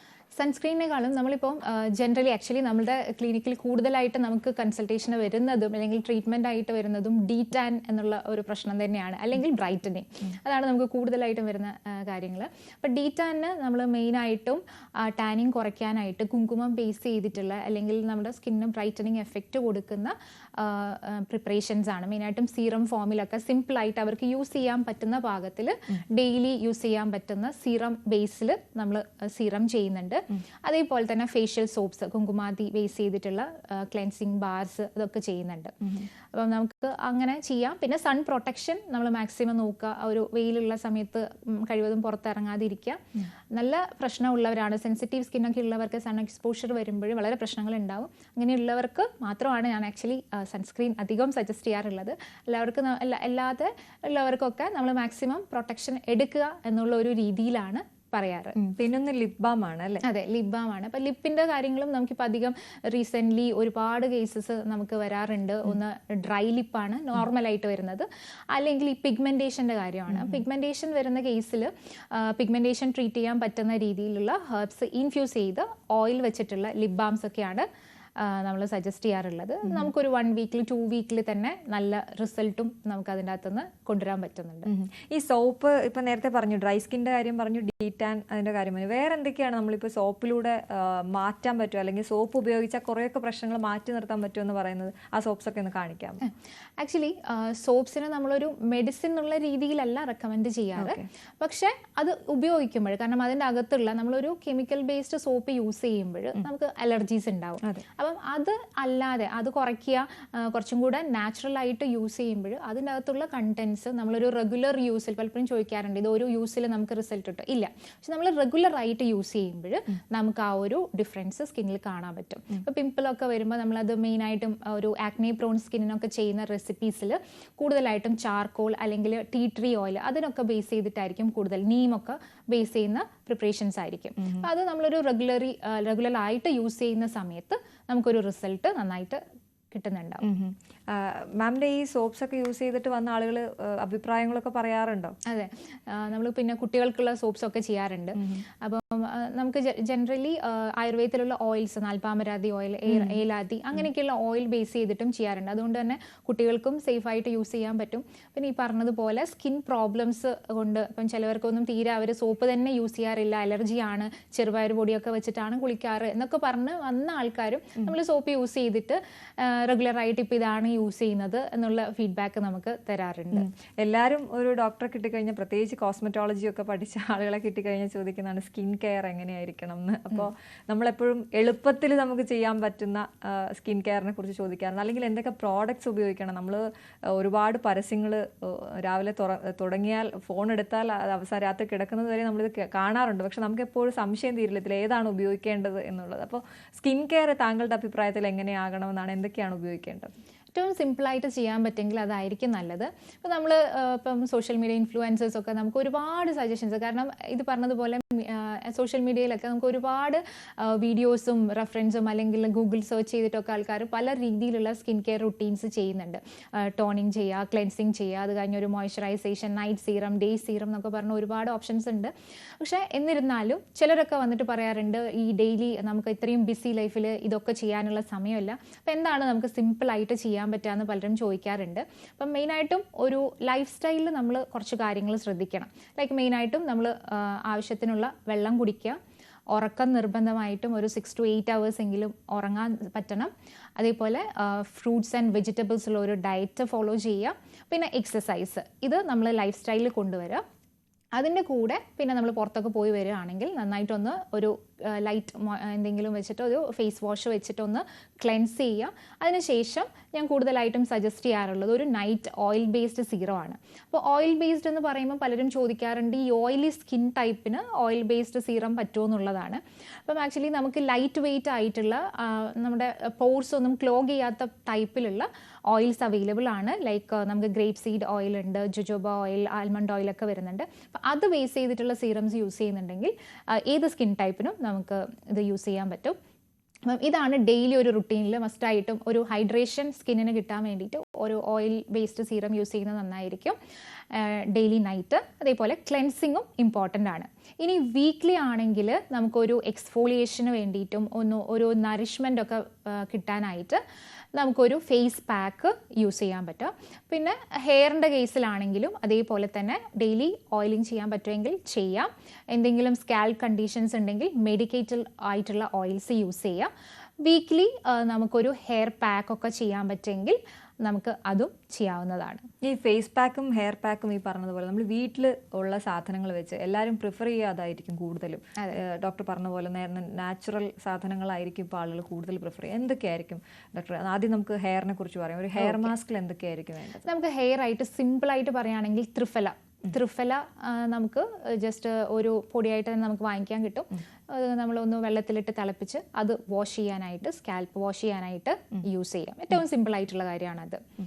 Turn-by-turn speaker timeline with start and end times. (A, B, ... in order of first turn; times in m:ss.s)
0:00.4-0:43.0 A
0:43.5-0:58.6 A
0:58.6-1:00.0 B
1:00.0-1:17.6 A
1:18.2-1:24.7 A
1:24.7-1:36.2 B
1:36.2-2:19.2 A
1:40.8-1:41.0 B
2:19.7-2:20.2 A
2:20.2-2:25.1 B
2:25.3-2:53.5 A
2:32.9-2:33.2 B
2:53.4-3:20.1 B
3:20.5-3:59.0 A
3:59.5-4:10.4 A
4:11.1-4:46.2 A
4:46.9-4:53.6 A
4:54.1-5:03.8 A
5:04.3-5:16.7 A
5:17.2-5:22.4 A
5:22.6-5:37.0 B
5:35.6-5:35.9 A
5:37.0-5:50.8 A